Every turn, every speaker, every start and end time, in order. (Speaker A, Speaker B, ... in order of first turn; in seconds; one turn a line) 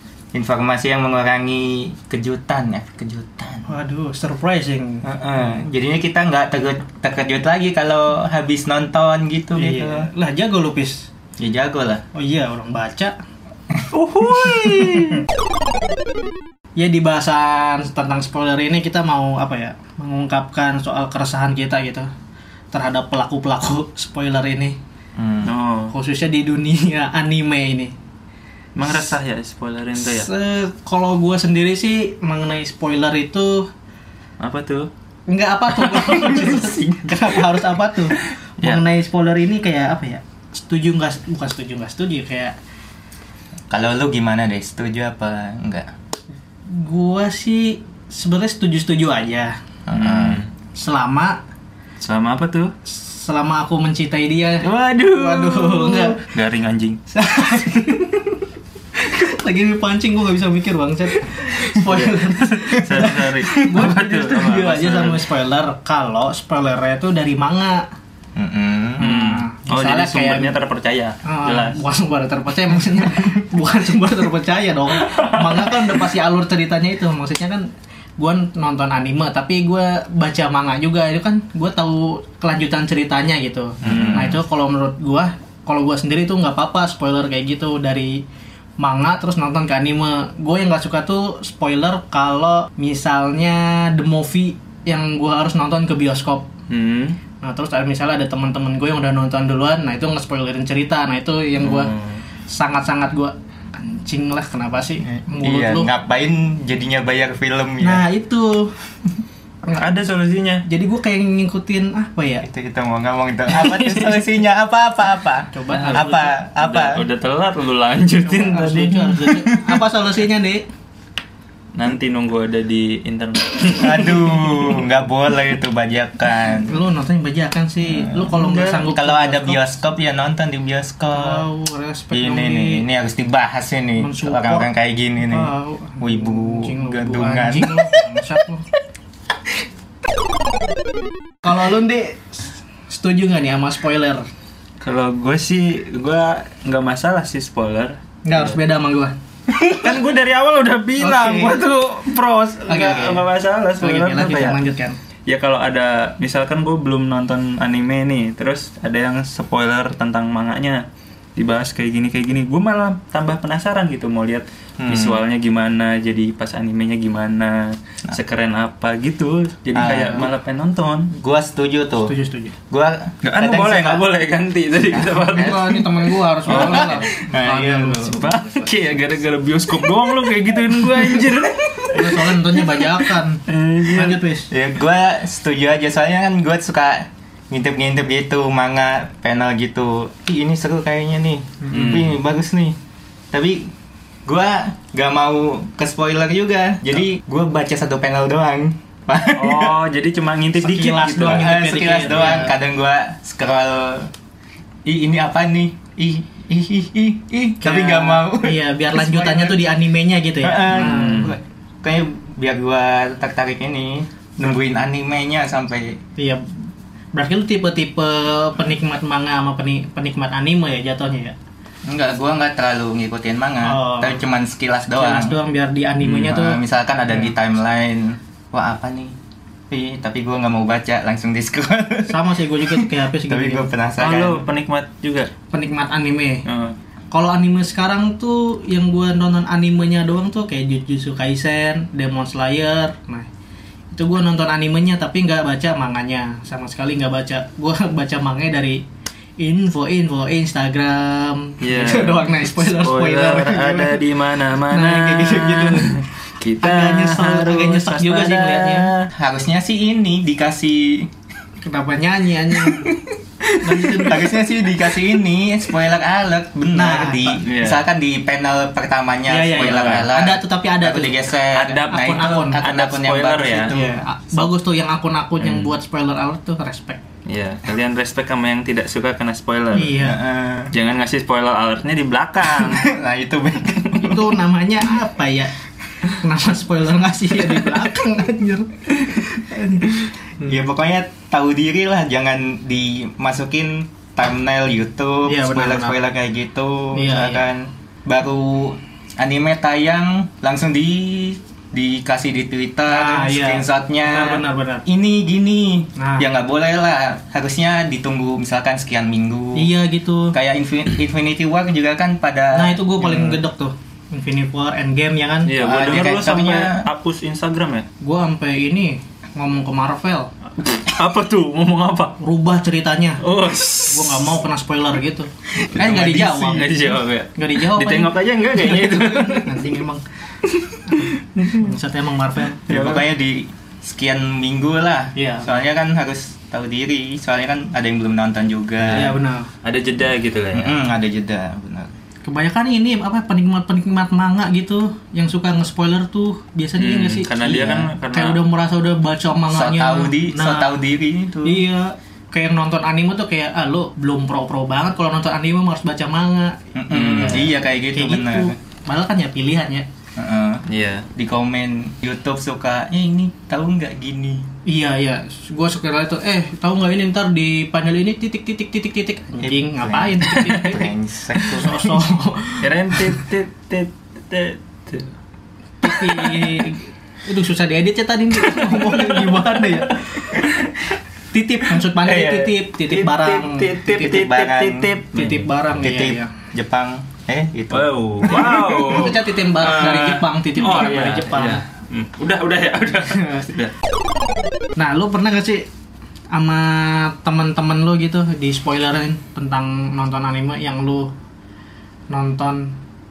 Speaker A: 0.3-3.7
Speaker B: 3.7-5.1
Speaker A: 5.0-10.1
Speaker B: 9.6-11.1
Speaker A: 11.4-12.0
Speaker B: 12.2-13.1
Speaker C: 13.9-15.3
Speaker B: 14.3-15.1
Speaker B: 16.8-22.1
Speaker B: 22.7-24.8
Speaker A: 25.2-25.5
Speaker C: 25.4-25.9
Speaker B: 25.9-27.9
Speaker C: 28.8-30.3
Speaker B: 28.9-29.2
Speaker B: 30.0-33.7
Speaker C: 34.4-34.9
Speaker B: 35.3-42.5
Speaker C: 35.8-37.4
Speaker C: 38.1-38.8
Speaker A: 43.7-45.9
Speaker B: 46.7-49.5
Speaker A: 49.9-50.4
Speaker C: 50.0-50.5
Speaker B: 50.8-51.4
Speaker C: 52.0-52.7
Speaker B: 52.9-56.2
Speaker C: 54.6-57.0
Speaker B: 57.1-58.4
Speaker B: 59.0-67.8
Speaker C: 61.9-65.3
Speaker A: 63.5-63.8
Speaker A: 68.4-69.1
Speaker B: 69.0-70.6
Speaker C: 69.0-71.8
Speaker B: 71.2-77.7
Speaker C: 75.0-75.7
Speaker B: 78.2-88.2
Speaker A: 83.8-84.4
Speaker C: 83.8-84.4
Speaker B: 88.8-96.5
Speaker C: 96.7-97.2
Speaker B: 97.4-101.9
Speaker C: 101.6-102.2
Speaker B: 102.5-105.9
Speaker A: 105.1-108.0
Speaker B: 107.8-108.8
Speaker C: 109.8-110.7
Speaker B: 110.7-112.5
Speaker A: 112.4-117.0
Speaker C: 113.5-114.2
Speaker B: 115.5-116.3
Speaker C: 115.7-119.8
Speaker B: 118.2-120.7
Speaker C: 121.7-124.8
Speaker A: 123.7-126.8
Speaker B: 126.6-129.6
Speaker A: 127.9-131.5
Speaker C: 128.3-128.9
Speaker B: 131.1-132.8
Speaker A: 132.1-138.0
Speaker B: 134.0-134.7
Speaker B: 135.3-138.7
Speaker B: 141.4-144.2
Speaker C: 144.8-148.6
Speaker B: 148.2-149.2
Speaker A: 149.6-149.8
Speaker C: 149.8-154.6
Speaker B: 151.0-151.6
Speaker B: 152.7-155.0
Speaker C: 155.3-171.1
Speaker A: 164.8-165.2
Speaker A: 169.7-170.3
Speaker A: 171.1-172.1
Speaker B: 172.0-172.5
Speaker A: 172.7-174.1
Speaker C: 173.2-177.1
Speaker A: 174.9-175.9
Speaker B: 175.3-178.2
Speaker A: 176.5-178.7
Speaker C: 178.1-182.7
Speaker B: 181.9-184.5
Speaker C: 183.5-184.2
Speaker A: 184.5-192.8
Speaker C: 191.7-192.2
Speaker A: 193.3-193.7
Speaker A: 194.3-199.8
Speaker C: 199.4-202.5
Speaker B: 200.6-202.5
Speaker A: 201.2-204.1
Speaker A: 204.9-209.7
Speaker B: 207.6-211.3
Speaker A: 210.4-216.0
Speaker C: 210.7-211.4
Speaker B: 216.2-216.4
Speaker B: 217.1-221.3
Speaker A: 221.9-225.4
Speaker B: 223.6-224.2
Speaker B: 225.0-226.6
Speaker A: 226.0-229.2
Speaker A: 229.7-234.5
Speaker B: 232.1-233.7
Speaker C: 234.0-235.3
Speaker B: 235.5-236.4
Speaker C: 236.5-236.8
Speaker B: 237.1-243.3
Speaker B: 243.9-248.8
Speaker B: 249.4-254.0
Speaker C: 251.6-259.1
Speaker B: 254.7-256.0
Speaker B: 256.6-258.9
Speaker A: 259.1-261.1
Speaker B: 261.6-262.9
Speaker A: 262.5-274.0
Speaker B: 263.6-264.5
Speaker B: 266.7-267.4
Speaker C: 267.4-267.9
Speaker B: 269.3-271.2
Speaker C: 269.6-270.1
Speaker C: 271.5-273.7
Speaker B: 271.9-272.6
Speaker B: 273.7-277.0
Speaker C: 275.4-275.7
Speaker C: 277.3-280.1
Speaker B: 279.7-280.2
Speaker A: 280.0-280.7
Speaker C: 280.7-282.9
Speaker A: 282.5-284.4
Speaker B: 283.9-285.5
Speaker B: 286.1-290.0
Speaker A: 290.4-309.7
Speaker B: 295.3-296.0
Speaker B: 296.9-297.5
Speaker B: 302.9-304.9
Speaker B: 306.0-306.2
Speaker B: 309.6-310.4
Speaker A: 310.3-313.4
Speaker B: 312.5-315.6
Speaker C: 315.5-317.9
Speaker A: 315.6-316.9
Speaker B: 318.0-320.3
Speaker C: 320.6-322.2
Speaker B: 322.2-323.2
Speaker C: 323.2-324.4
Speaker B: 323.9-330.0
Speaker A: 325.8-326.0
Speaker C: 325.8-329.8
Speaker C: 330.4-331.8
Speaker B: 330.9-332.7
Speaker A: 332.7-339.2
Speaker C: 332.7-333.1
Speaker B: 335.2-335.5
Speaker C: 338.9-339.1
Speaker B: 338.9-339.5
Speaker C: 339.6-340.8
Speaker A: 340.5-341.9
Speaker B: 342.2-347.4
Speaker C: 346.8-348.4
Speaker A: 347.4-347.9
Speaker B: 348.1-350.8
Speaker A: 349.4-351.6
Speaker B: 351.4-356.6
Speaker A: 356.8-358.6
Speaker C: 356.9-357.5
Speaker B: 357.2-359.9
Speaker A: 360.2-360.6
Speaker C: 360.7-361.1
Speaker A: 361.1-364.5
Speaker B: 364.7-370.9
Speaker A: 369.4-371.7
Speaker C: 370.2-370.8
Speaker C: 371.4-371.8
Speaker B: 371.5-373.2
Speaker C: 372.6-375.1
Speaker B: 375.8-380.4
Speaker C: 375.9-376.7
Speaker C: 378.4-380.9
Speaker B: 381.3-384.2
Speaker C: 381.8-385.5
Speaker A: 383.9-384.9
Speaker B: 385.1-386.3
Speaker A: 385.8-389.0
Speaker C: 387.7-393.7
Speaker B: 388.3-391.6
Speaker B: 393.1-393.5
Speaker B: 394.8-395.7
Speaker B: 396.3-401.1
Speaker B: 402.1-402.8